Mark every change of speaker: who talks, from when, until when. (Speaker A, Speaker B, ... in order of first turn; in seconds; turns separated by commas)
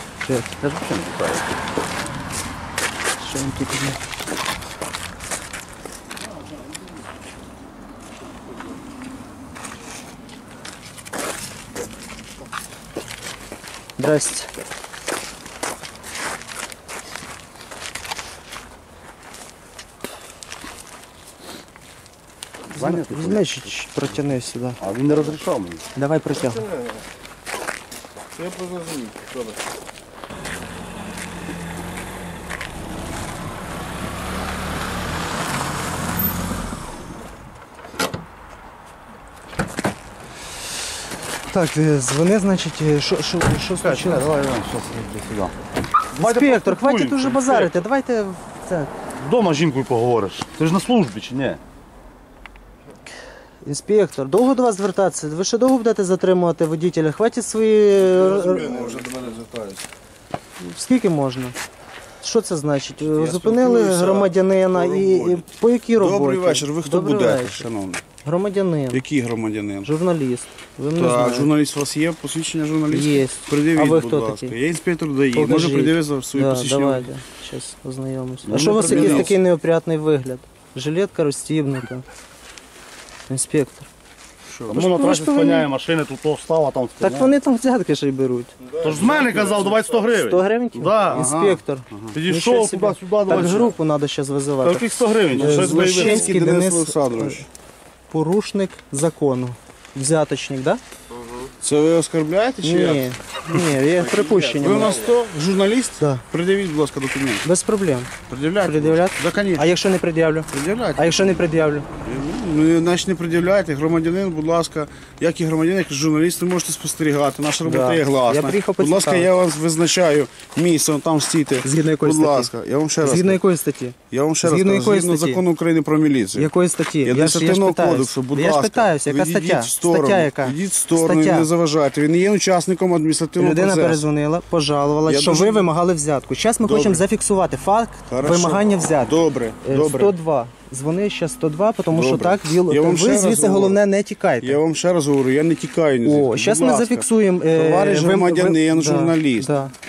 Speaker A: 0.2-0.5, Speaker B: 0.6-1.6, Speaker A: 3.2-4.0, Speaker A: 14.0-14.5, Speaker B: 22.7-23.7, Speaker A: 22.8-24.8, Speaker B: 24.8-25.8, Speaker A: 25.9-26.7, Speaker C: 28.4-29.3, Speaker A: 41.5-44.3, Speaker B: 43.8-45.5, Speaker B: 46.1-47.8, Speaker A: 46.2-48.9, Speaker B: 49.2-51.6, Speaker A: 53.6-58.8, Speaker C: 58.0-59.9, Speaker A: 60.6-61.6, Speaker A: 62.2-67.7, Speaker C: 63.1-65.5, Speaker C: 66.0-68.0, Speaker A: 68.2-69.0, Speaker C: 68.9-69.9, Speaker A: 69.8-71.5, Speaker C: 71.0-77.1, Speaker A: 72.9-74.5, Speaker A: 75.3-82.0, Speaker B: 78.5-79.3, Speaker C: 78.6-79.3, Speaker A: 83.3-83.9, Speaker C: 84.5-84.8, Speaker A: 84.7-85.7, Speaker B: 84.7-87.3, Speaker A: 87.0-88.5, Speaker C: 88.8-89.8, Speaker B: 88.8-91.2, Speaker A: 90.1-97.4, Speaker C: 91.0-92.2, Speaker B: 92.1-93.8, Speaker B: 94.6-96.3, Speaker C: 95.3-97.5, Speaker A: 98.1-100.8, Speaker C: 101.5-103.2, Speaker A: 102.6-105.0, Speaker C: 104.4-107.5, Speaker A: 107.4-111.9, Speaker C: 108.3-109.7, Speaker C: 110.5-111.4, Speaker C: 112.0-123.4, Speaker A: 117.6-119.3, Speaker A: 121.6-122.5, Speaker A: 123.0-125.4, Speaker C: 124.1-126.5, Speaker A: 126.4-131.5, Speaker C: 127.0-134.0, Speaker A: 133.4-144.6, Speaker C: 135.1-135.7, Speaker C: 136.6-137.1, Speaker C: 138.1-140.2, Speaker C: 141.9-143.8, Speaker C: 144.4-149.5, Speaker A: 146.0-149.7